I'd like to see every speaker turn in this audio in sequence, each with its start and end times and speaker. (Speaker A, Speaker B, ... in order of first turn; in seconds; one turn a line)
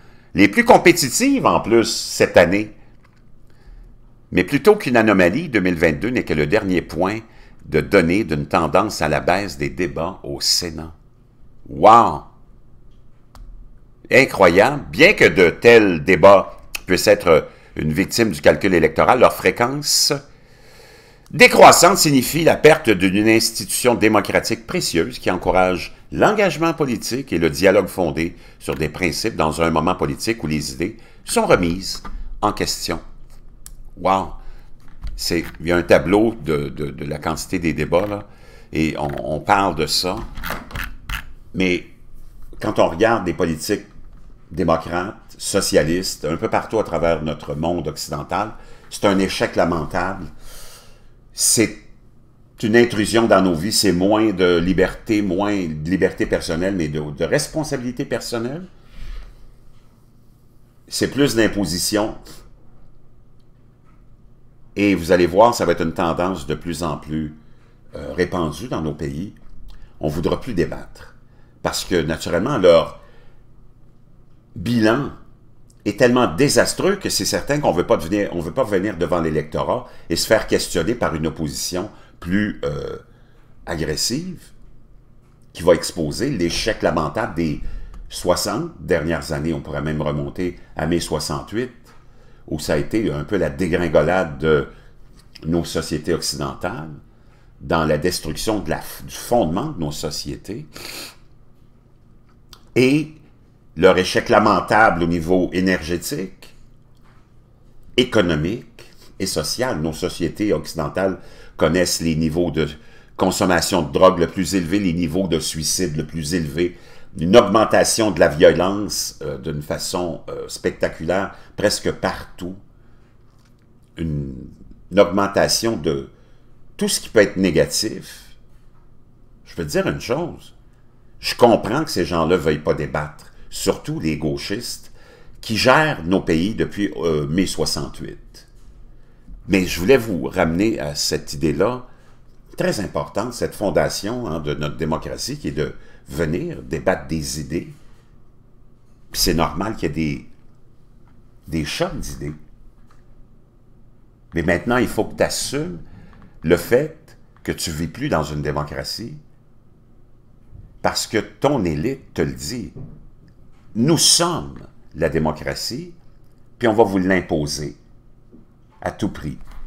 Speaker A: 0.3-2.7
Speaker A: 4.3-10.9
Speaker A: 11.7-12.3
Speaker A: 14.1-20.2
Speaker A: 21.3-33.0
Speaker A: 34.0-34.4
Speaker A: 35.2-40.2
Speaker A: 41.5-41.9
Speaker A: 42.6-43.9
Speaker A: 44.5-50.3
Speaker A: 51.3-51.9
Speaker A: 52.6-58.7
Speaker A: 60.9-62.2
Speaker A: 64.7-67.4
Speaker A: 67.9-69.3
Speaker A: 70.0-73.0
Speaker A: 74.5-75.2
Speaker A: 75.8-83.0
Speaker A: 83.7-84.5
Speaker A: 85.5-91.9
Speaker A: 92.5-94.7
Speaker A: 95.4-97.0
Speaker A: 97.6-100.7
Speaker A: 102.7-103.2
Speaker A: 103.8-106.5
Speaker A: 108.0-122.6
Speaker A: 124.0-126.1
Speaker A: 126.8-128.3
Speaker A: 129.4-130.5
Speaker A: 131.2-138.5
Speaker A: 139.4-141.8
Speaker A: 142.5-147.8
Speaker A: 149.1-150.3
Speaker A: 151.5-152.4
Speaker A: 154.3-155.8
Speaker A: 156.4-159.2
Speaker A: 160.8-162.8
Speaker A: 163.7-165.9
Speaker A: 166.6-167.8
Speaker A: 168.8-169.4